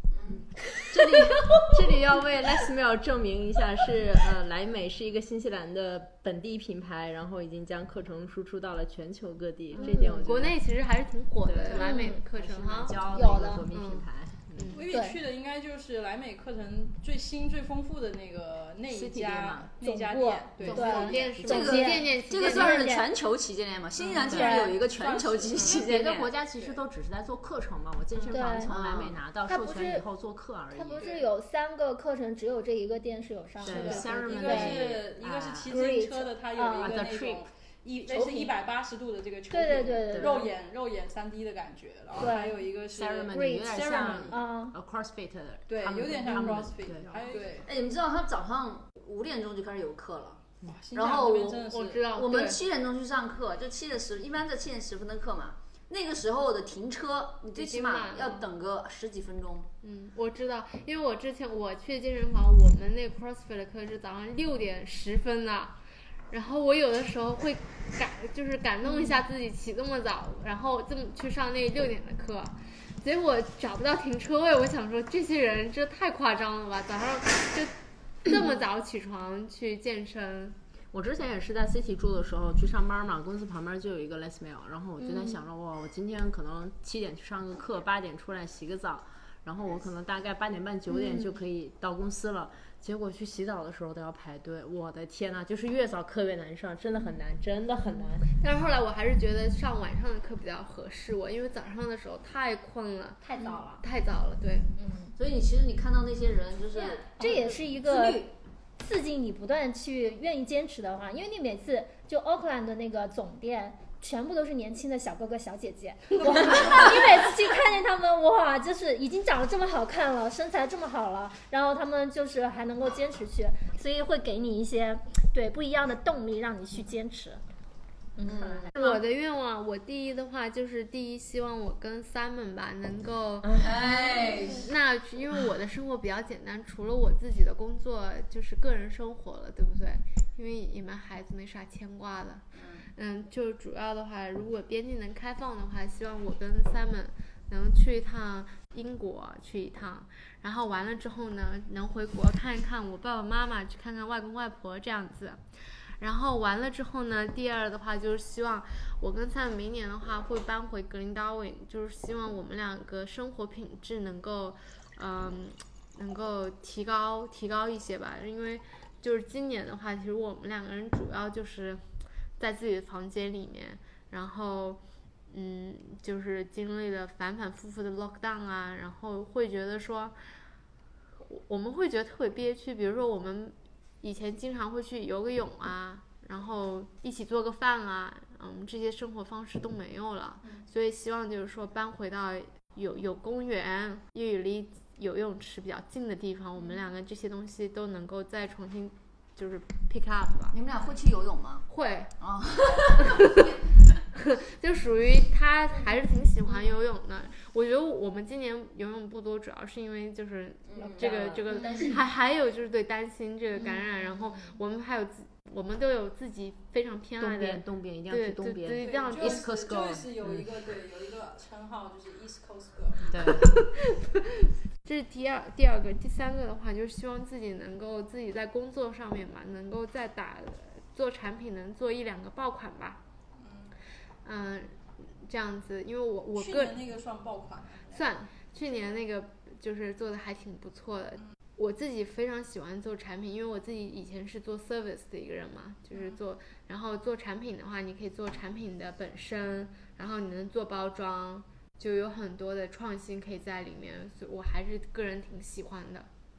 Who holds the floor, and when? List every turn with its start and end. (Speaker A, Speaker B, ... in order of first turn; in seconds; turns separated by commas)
Speaker A: 0.1-0.4, Speaker B: 0.3-10.6, Speaker C: 9.8-10.3, Speaker D: 9.8-13.0, Speaker B: 11.4-14.8, Speaker C: 11.7-12.2, Speaker C: 13.1-13.7, Speaker D: 13.7-14.1, Speaker D: 14.6-14.9, Speaker E: 14.7-21.2, Speaker C: 14.9-15.2, Speaker B: 18.9-19.7, Speaker C: 19.8-23.1, Speaker B: 20.6-21.8, Speaker A: 20.6-26.3, Speaker D: 20.6-22.9, Speaker E: 24.0-25.9, Speaker B: 24.3-24.5, Speaker C: 24.3-24.8, Speaker B: 25.6-31.2, Speaker E: 26.5-26.8, Speaker C: 28.3-28.7, Speaker A: 28.7-29.2, Speaker C: 29.5-30.1, Speaker C: 30.7-34.9, Speaker B: 33.6-35.7, Speaker A: 33.7-34.7, Speaker E: 33.7-44.4, Speaker C: 35.7-37.1, Speaker B: 36.7-37.4, Speaker B: 38.1-38.6, Speaker C: 39.5-40.5, Speaker B: 40.1-40.4, Speaker C: 42.2-42.6, Speaker B: 42.9-47.2, Speaker C: 43.3-44.8, Speaker E: 45.7-47.7, Speaker A: 47.6-59.7, Speaker E: 50.6-52.1, Speaker D: 51.7-52.6, Speaker D: 57.6-58.5, Speaker D: 59.8-65.8, Speaker D: 66.3-77.7, Speaker C: 68.9-69.1, Speaker D: 78.3-80.6, Speaker B: 80.9-98.3, Speaker D: 98.2-104.7, Speaker C: 103.2-103.8, Speaker C: 104.8-105.2, Speaker A: 105.2-108.3, Speaker C: 106.7-108.3, Speaker C: 108.8-127.4, Speaker E: 116.2-116.9, Speaker A: 116.5-116.8, Speaker C: 128.2-128.7, Speaker A: 128.2-128.7, Speaker B: 128.8-129.0, Speaker D: 128.8-133.6, Speaker B: 133.4-133.9, Speaker A: 133.6-134.7, Speaker D: 134.6-155.4, Speaker A: 142.5-142.9, Speaker D: 156.0-171.8, Speaker D: 172.4-180.2, Speaker D: 181.3-200.6, Speaker A: 200.5-201.7, Speaker D: 201.7-202.1, Speaker A: 202.2-203.5, Speaker D: 202.9-203.5, Speaker D: 204.2-219.6, Speaker A: 210.7-211.3, Speaker B: 210.8-212.0, Speaker B: 217.2-220.6, Speaker E: 218.8-223.3, Speaker B: 223.1-223.6, Speaker D: 223.3-233.0, Speaker E: 233.4-233.8, Speaker D: 234.2-236.8, Speaker E: 236.3-238.1, Speaker D: 237.9-256.1